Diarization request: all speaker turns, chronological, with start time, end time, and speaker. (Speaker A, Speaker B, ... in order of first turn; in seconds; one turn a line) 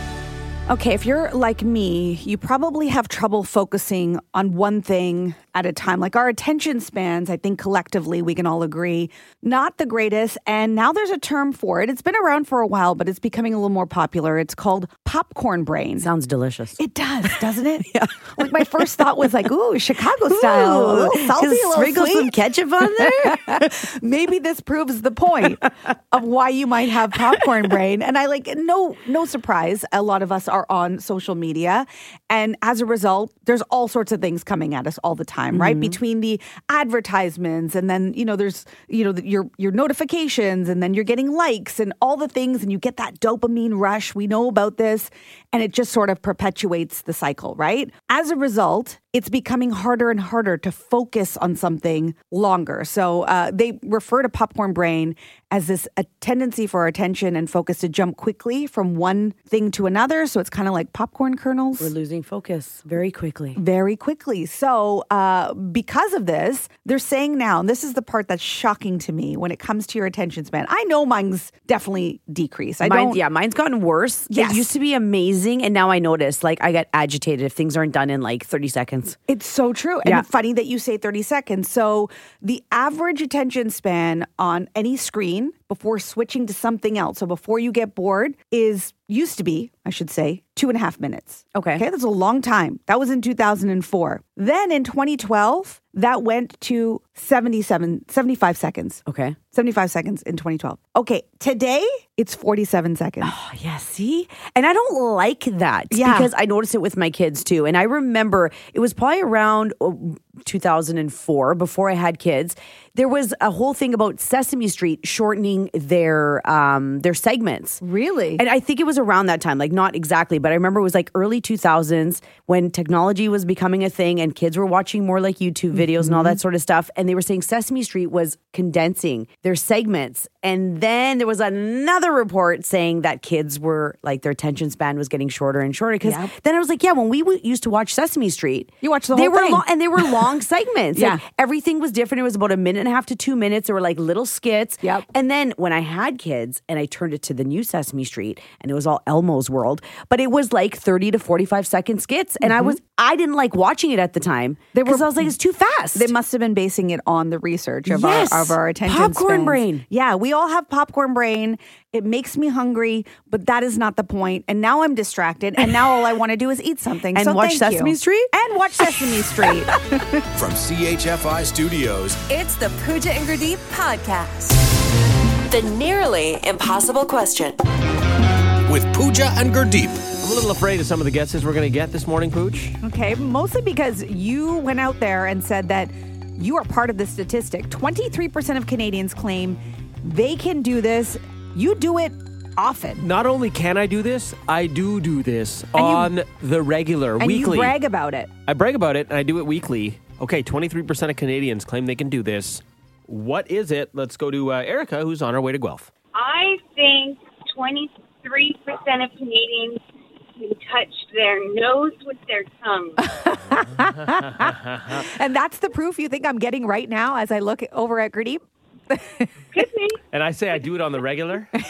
Speaker A: 0.7-16.1
Speaker B: 16.0-16.8
Speaker A: 16.8-22.3
Speaker B: 17.9-18.3
Speaker B: 20.2-23.7
Speaker A: 23.2-61.9
Speaker B: 35.5-36.0
Speaker B: 61.8-63.6
Speaker A: 63.5-73.2
Speaker B: 72.8-79.2
Speaker A: 74.3-74.7
Speaker A: 79.3-103.3
Speaker B: 91.5-91.8
Speaker B: 99.0-99.4
Speaker B: 103.2-117.8
Speaker A: 105.9-106.3
Speaker A: 117.8-118.4
Speaker B: 118.4-156.1
Speaker A: 125.9-126.4
Speaker A: 136.0-136.3
Speaker A: 138.8-140.2
Speaker A: 140.9-141.2
Speaker A: 152.4-152.8
Speaker A: 154.7-155.3
Speaker A: 155.9-170.2
Speaker B: 157.9-159.9
Speaker B: 167.1-168.3
Speaker C: 170.3-172.2
Speaker D: 172.3-174.6
Speaker D: 175.5-177.6
Speaker C: 178.7-180.1
Speaker E: 180.2-182.8
Speaker A: 182.8-193.0
Speaker E: 193.0-197.8
Speaker A: 195.8-196.1
Speaker A: 197.2-198.3
Speaker E: 198.5-205.9
Speaker F: 206.1-209.8
Speaker F: 210.4-213.0
Speaker A: 213.2-218.4
Speaker E: 214.4-214.6
Speaker A: 218.9-219.3
Speaker F: 219.5-220.0
Speaker E: 220.1-221.5